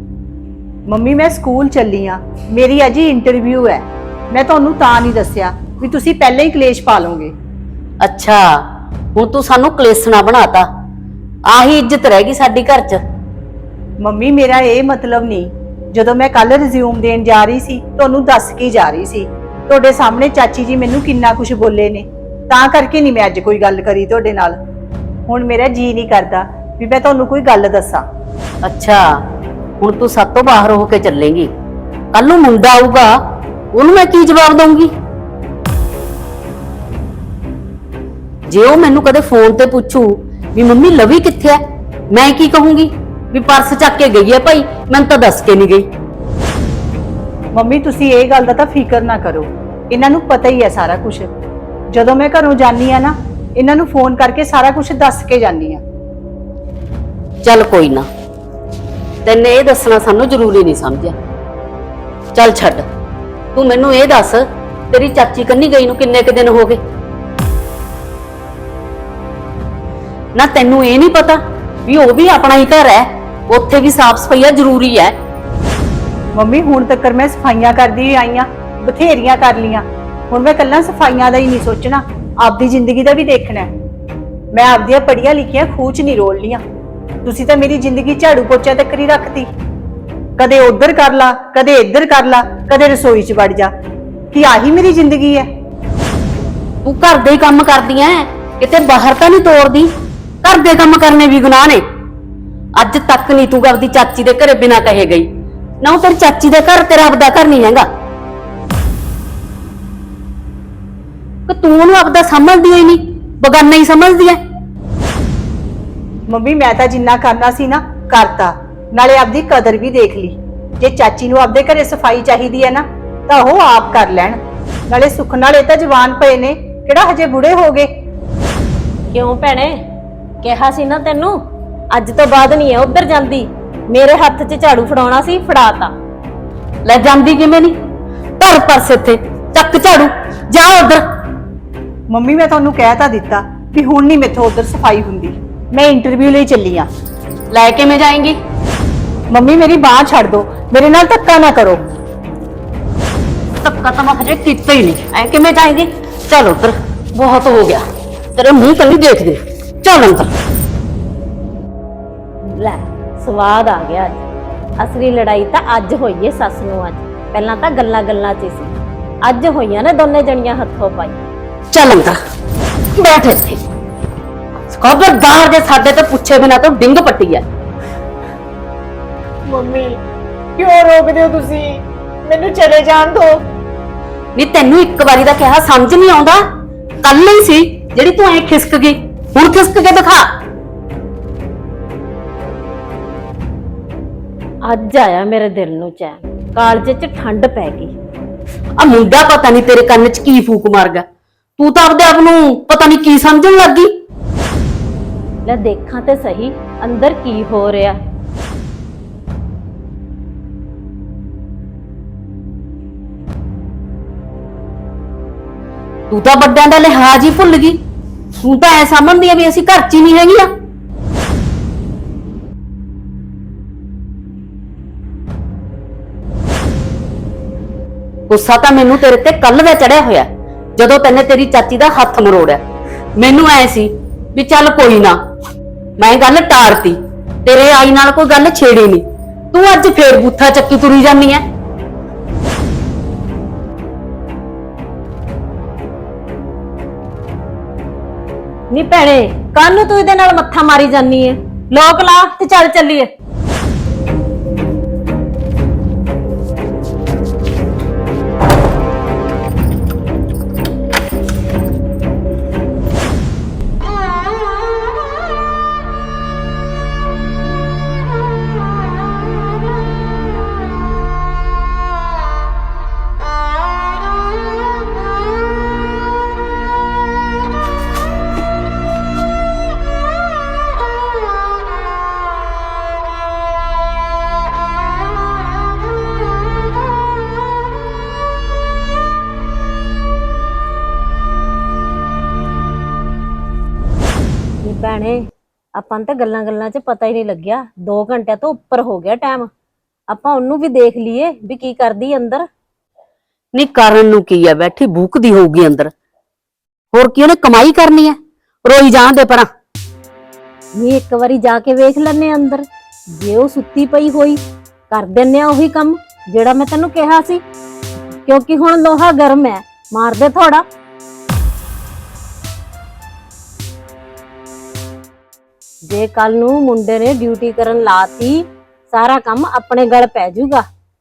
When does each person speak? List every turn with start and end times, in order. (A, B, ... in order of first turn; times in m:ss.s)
0:00.9-0:07.3 A
0:08.0-0:10.7 B
0:11.5-0:13.0 B
0:14.0-0:24.6 A
0:25.3-0:28.0 A
0:28.6-0:29.2 B
0:29.8-0:31.5 B
0:32.1-0:33.2 B
0:33.7-0:34.9 B
0:38.5-0:45.9 B
0:47.5-0:51.3 A
0:51.9-0:55.8 A
0:57.4-0:58.1 B
0:59.2-1:01.2 B
1:02.3-1:02.8 B
1:03.5-1:06.8 B
1:10.4-1:15.1 B
1:16.3-1:23.7 A
1:24.5-1:26.6 A
1:27.2-1:29.5 A
1:30.4-1:33.7 A
1:34.3-1:35.5 A
1:36.8-1:41.8 B
1:42.8-1:45.3 B
1:45.8-1:47.9 B
1:51.5-1:54.4 B
1:56.3-2:04.4 A
2:04.9-2:07.9 A
2:09.1-2:09.8 C
2:10.4-2:11.4 C
2:11.9-2:15.9 C
2:16.8-2:17.8 B
2:18.4-2:21.0 B
2:22.1-2:26.9 A
2:27.5-2:28.4 B
2:29.3-2:31.8 A
2:33.6-2:37.8 B
2:38.3-2:40.3 B
2:42.4-2:44.2 C
2:44.8-2:51.2 C
2:51.7-2:52.2 B
2:52.9-2:53.6 B
2:54.7-2:57.4 B
2:59.4-3:00.0 A
3:00.6-3:03.4 A
3:04.4-3:06.4 B
3:07.0-3:10.3 B
3:14.6-3:17.9 C
3:18.8-3:21.0 B
3:21.6-3:23.9 B
3:25.4-3:28.0 C
3:36.1-3:37.8 B
3:38.4-3:40.5 B
3:48.3-3:52.6 B
3:53.2-3:55.2 B
3:56.0-4:01.4 B
4:08.7-4:13.1 C
4:54.6-4:59.5 C
5:00.1-5:02.5 C
5:03.5-5:05.9 B
5:06.9-5:09.5 B
5:10.8-5:17.4 C
5:18.2-5:20.6 C
5:25.8-5:30.6 C